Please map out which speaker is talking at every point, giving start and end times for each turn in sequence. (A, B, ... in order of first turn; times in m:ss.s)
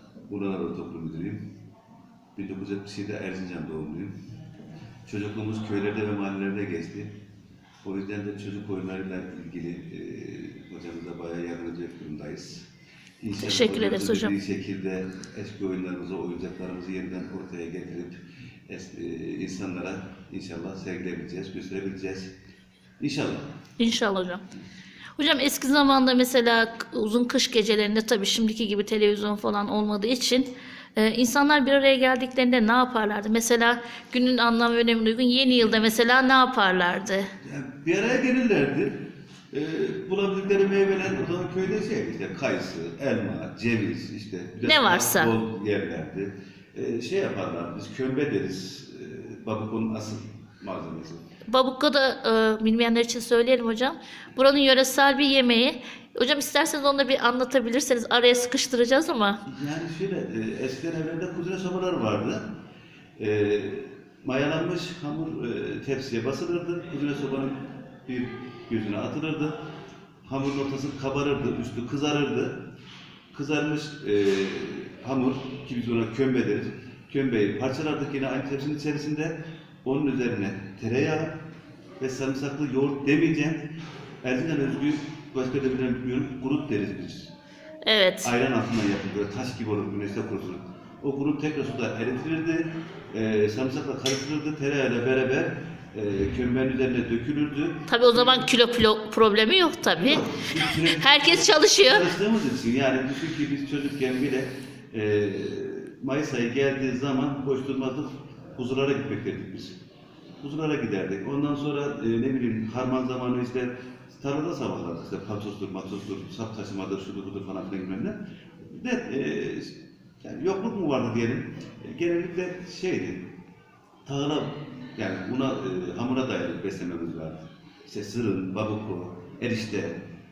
0:00.2-0:01.5 A
0:02.4-0:04.2 A
0:05.1-0:07.1 A
0:07.8-0:12.7 A
0:13.2-0:22.3 A
0:13.4-0:14.3 B
0:23.0-0:23.5 A
0:23.8-0:24.4 B
0:25.2-0:37.3 B
0:37.4-0:51.2 A
0:44.6-0:45.3 B
0:51.5-0:59.4 B
0:59.4-1:02.5 A
1:03.2-1:09.6 A
1:10.3-1:12.6 A
1:13.3-1:21.4 A
1:22.0-1:23.7 A
1:24.2-1:27.3 A
1:27.8-1:28.3 B
1:28.2-1:38.4 A
1:37.9-1:40.2 B
1:40.0-1:49.8 A
1:40.9-1:42.1 B
1:50.4-2:03.3 A
2:04.1-2:10.0 A